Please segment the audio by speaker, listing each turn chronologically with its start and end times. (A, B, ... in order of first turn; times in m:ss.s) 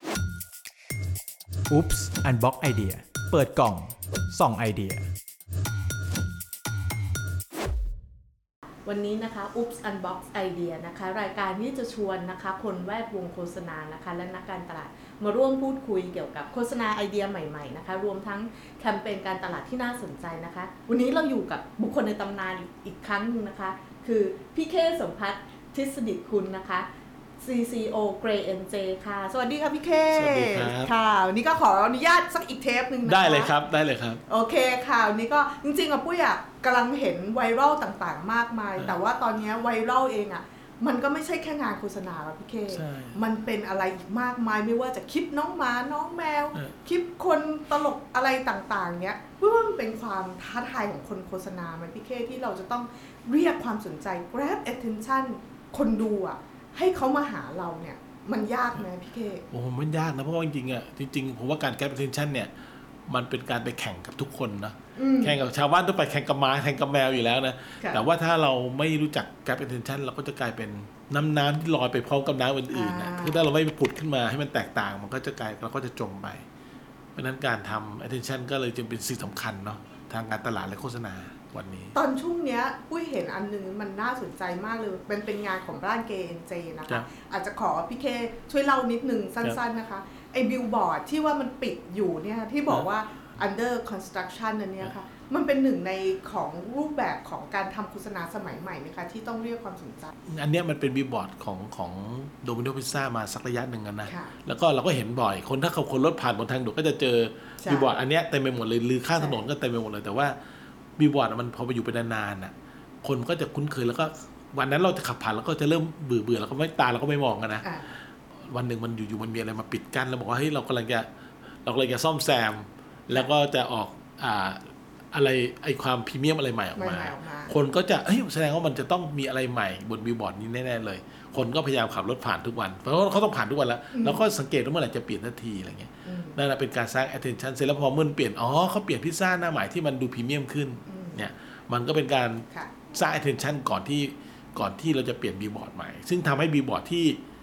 0:01.7-0:05.1 A
0:08.8-0:26.9 B
0:27.4-0:33.5 B
0:30.1-0:30.9 C
0:33.0-0:34.2 C
0:34.3-0:59.4 B
0:42.7-0:43.2 C
0:59.5-1:02.5 C
1:03.1-1:16.4 C
1:05.0-1:05.4 B
1:12.7-1:13.5 B
1:17.2-1:21.9 C
1:21.9-1:40.1 B
1:40.3-1:50.3 C
1:44.0-1:44.4 B
1:47.6-1:47.9 B
1:49.2-1:49.4 B
1:51.0-1:52.5 C
1:53.0-1:57.7 C
1:57.6-1:57.9 B
1:58.4-2:01.1 C
2:01.6-2:27.2 C
2:06.7-2:07.5 B
2:13.9-2:14.2 B
2:16.0-2:16.4 B
2:20.8-2:21.2 B
2:22.5-2:22.8 B